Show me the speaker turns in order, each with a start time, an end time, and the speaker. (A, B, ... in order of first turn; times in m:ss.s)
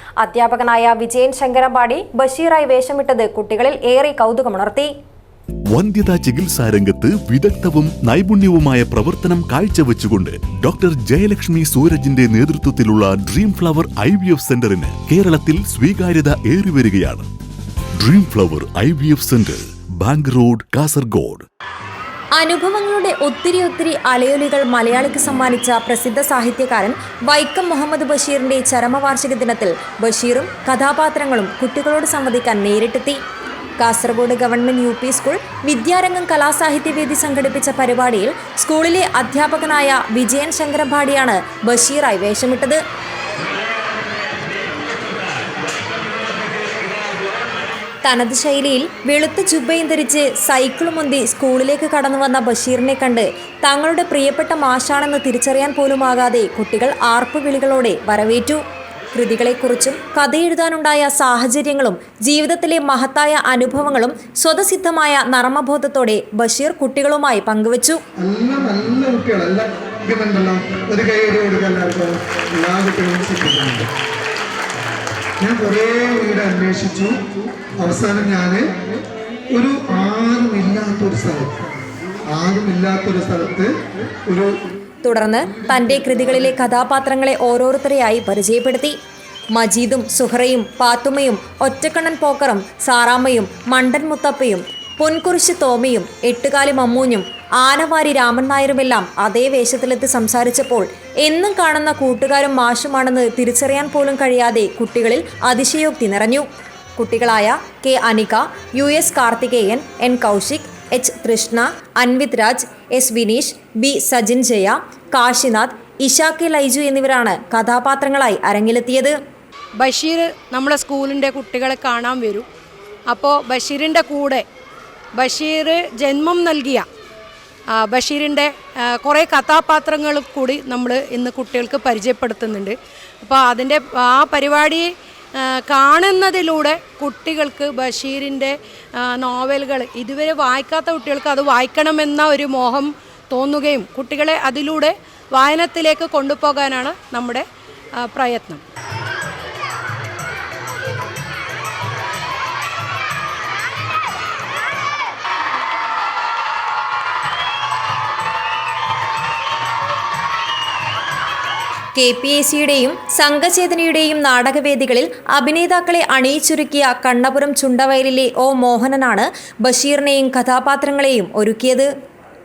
0:00.2-0:04.9 A
0:05.7-0:17.3 B
0:18.0-0:21.4 B
0:22.4-0:33.2 A
0:33.8-0:42.8 A
0:48.0-0:58.6 A
0:59.2-1:08.0 A
1:08.2-1:13.9 C
1:15.4-1:17.2 C
1:17.8-1:18.9 C
1:19.5-1:21.7 C
1:22.3-1:24.6 C
1:25.0-1:29.0 A
1:29.5-1:46.5 A
1:47.0-1:59.2 A
1:59.8-2:02.4 D
2:03.1-2:04.4 D
2:05.2-2:06.9 D
2:07.7-2:27.4 D
2:28.0-2:28.6 D
2:42.0-2:51.9 A